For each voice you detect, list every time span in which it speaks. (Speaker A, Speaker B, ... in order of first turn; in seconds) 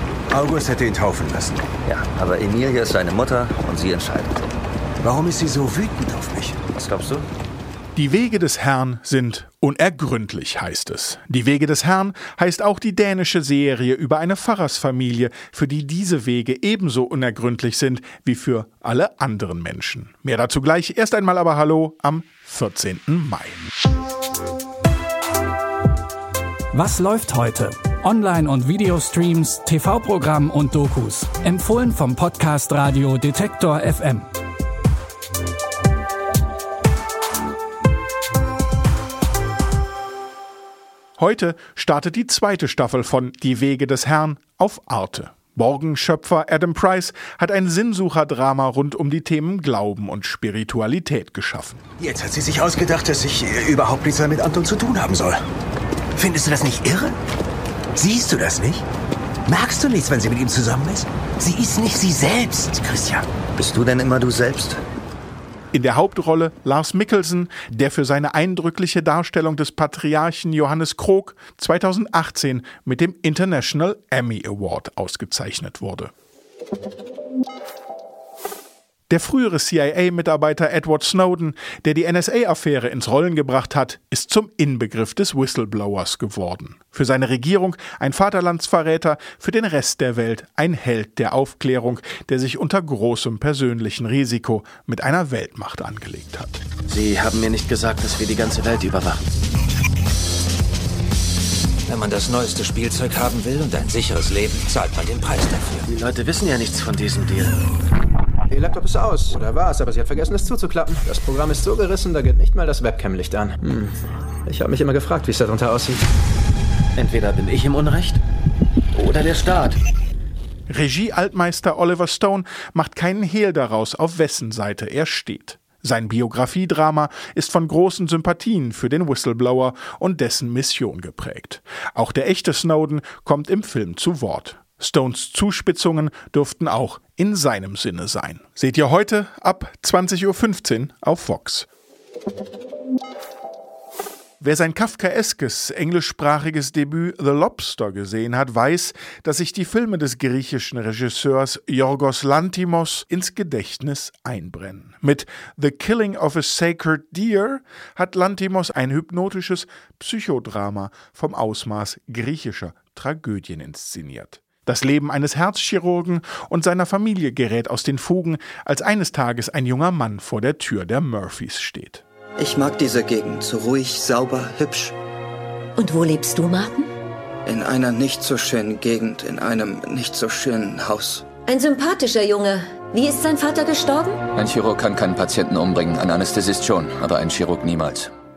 Speaker A: 0.3-1.7, 5.0-6.6, 52.0-55.4, 56.2-57.2, 58.0-58.8, 59.5-63.3
Speaker B: 1.9-4.4, 6.7-7.3, 63.6-64.8
Speaker C: 8.0-23.7, 41.2-51.8, 65.7-76.1, 79.1-96.6, 120.7-141.7, 144.4-172.0
Speaker D: 26.7-34.3
Speaker E: 96.9-99.2, 103.9-104.3, 104.9-107.8, 117.0-118.2, 118.9-119.8
Speaker F: 108.5-116.0
Speaker G: 172.4-174.9, 177.5-181.3
Speaker H: 175.8-176.9, 181.5-184.2
Speaker I: 184.3-188.1